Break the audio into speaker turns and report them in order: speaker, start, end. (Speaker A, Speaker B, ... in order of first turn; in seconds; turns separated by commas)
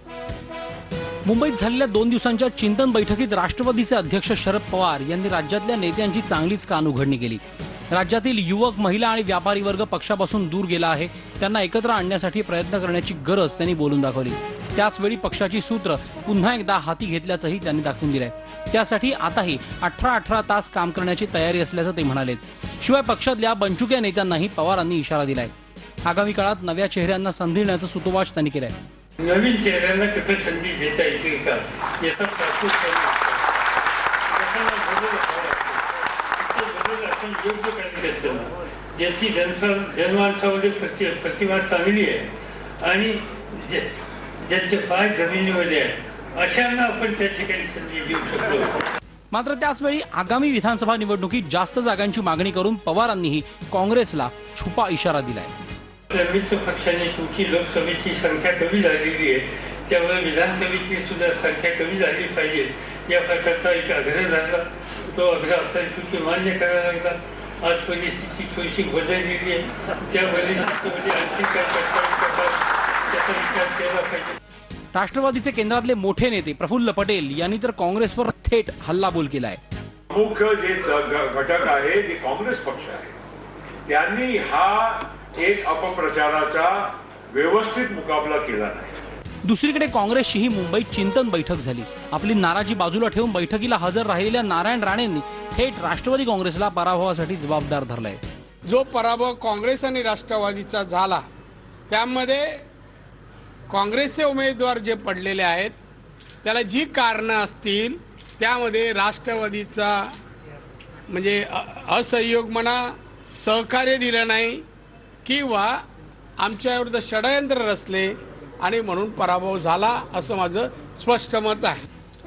Speaker A: 1.2-7.4, Speaker A: 7.9-25.5, Speaker A: 26.0-28.8, Speaker B: 29.2-33.5, Speaker B: 34.3-48.8, Speaker A: 49.3-55.5, Speaker B: 56.1-74.4, Speaker A: 74.9-79.6, Speaker C: 80.1-83.1, Speaker C: 83.8-88.9, Speaker A: 89.4-98.2, Speaker D: 98.7-101.2, Speaker D: 101.9-102.6, Speaker D: 103.7-105.8, Speaker D: 106.4-110.1, Speaker D: 111.1-114.6, Speaker D: 115.2-115.8, Speaker D: 116.4-121.8